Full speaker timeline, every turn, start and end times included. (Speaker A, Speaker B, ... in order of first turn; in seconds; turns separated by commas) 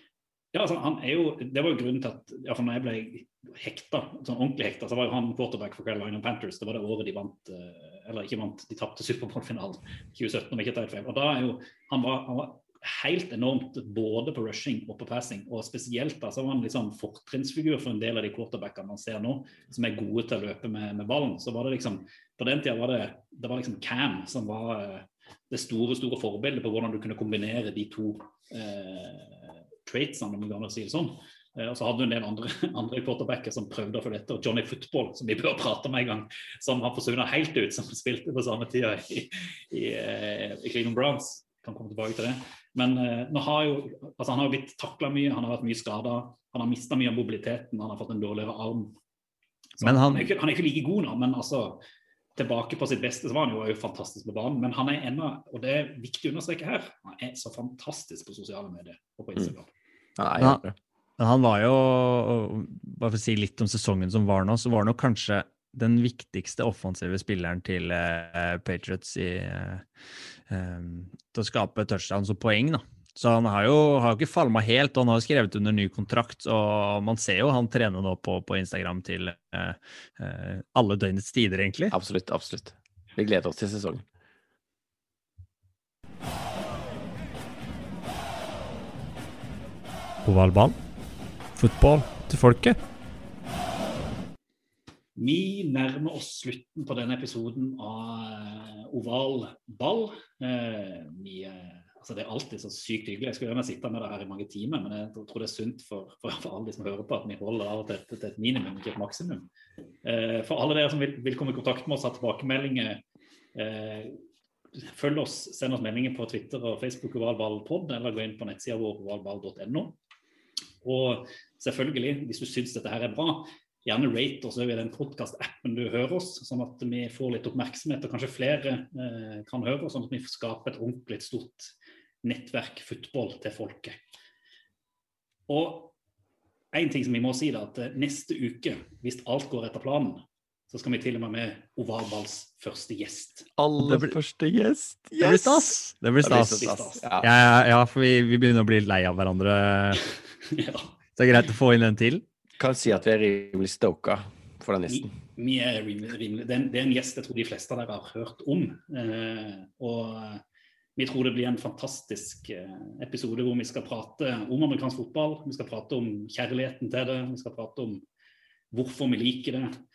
Speaker A: 0.5-49.0, Speaker A: 49.8-51.8, Speaker B: 49.8-50.3, Speaker A: 52.4-59.7, Speaker C: 60.2-60.7, Speaker B: 61.2-69.8, Speaker B: 70.5-82.0, Speaker C: 81.9-84.0, Speaker B: 90.2-90.8, Speaker B: 91.5-92.8, Speaker A: 95.2-109.5, Speaker A: 110.0-113.0, Speaker A: 113.5-114.2, Speaker A: 114.7-120.0, Speaker A: 120.8-134.0, Speaker A: 135.5-135.9, Speaker A: 136.7-143.5, Speaker C: 143.6-147.3, Speaker B: 143.8-144.2, Speaker B: 145.2-150.0, Speaker A: 146.3-147.0, Speaker A: 150.4-150.9, Speaker B: 151.2-152.2, Speaker C: 152.6-155.1, Speaker A: 154.9-160.4, Speaker A: 161.0-168.0, Speaker A: 168.7-169.7